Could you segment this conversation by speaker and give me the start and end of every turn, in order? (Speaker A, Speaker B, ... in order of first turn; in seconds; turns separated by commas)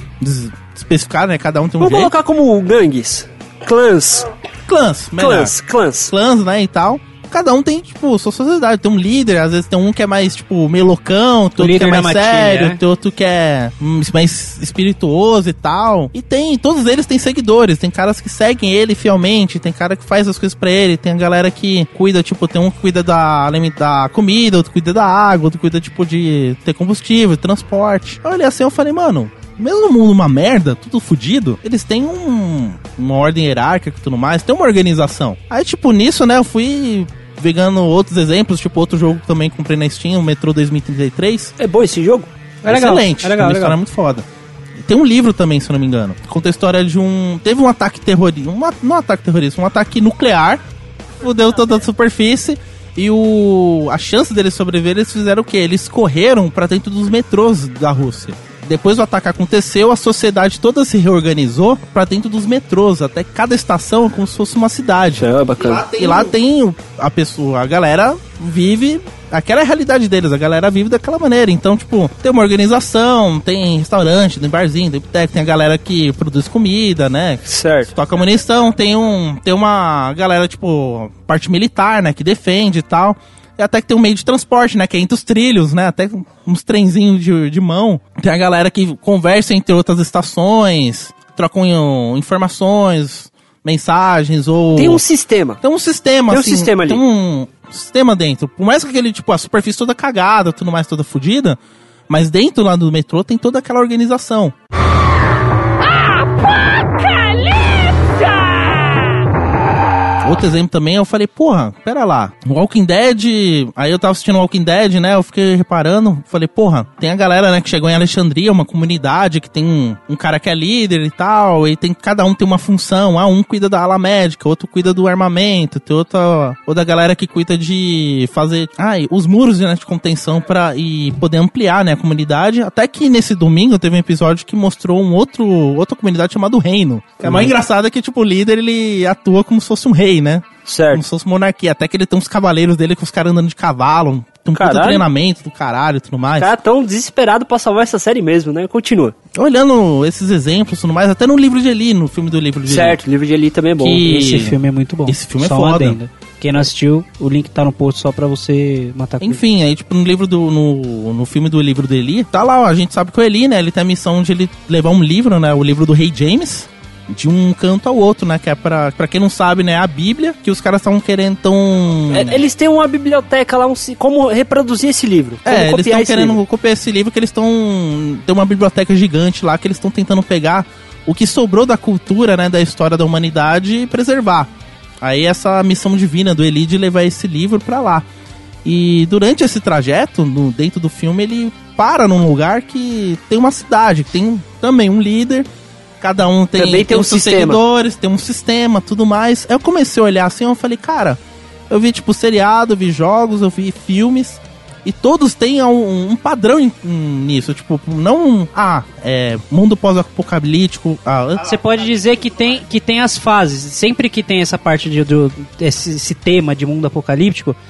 Speaker A: 0.2-2.1, Speaker B: 1.8-4.3, Speaker A: 4.7-5.5, Speaker B: 5.2-6.1, Speaker A: 6.1-41.5, Speaker C: 11.6-12.8, Speaker B: 41.6-42.3, Speaker C: 42.6-43.8, Speaker A: 42.6-44.2, Speaker A: 44.8-50.6, Speaker A: 51.2-95.0, Speaker B: 65.2-66.3, Speaker B: 77.5-77.9, Speaker B: 94.7-95.6, Speaker A: 95.6-101.6, Speaker B: 96.3-97.0, Speaker A: 102.1-104.5, Speaker A: 110.2-146.5, Speaker B: 137.2-137.5, Speaker B: 140.7-141.0, Speaker B: 144.6-145.0, Speaker B: 146.4-149.1, Speaker A: 149.3-153.0, Speaker B: 152.7-154.2, Speaker A: 153.8-156.0, Speaker C: 154.0-159.4, Speaker A: 159.2-172.4, Speaker B: 172.1-176.4, Speaker A: 175.4-184.5, Speaker A: 185.0-188.0, Speaker A: 188.6-195.5, Speaker A: 196.0-201.2, Speaker B: 196.6-197.6, Speaker A: 201.7-211.5, Speaker C: 211.4-217.6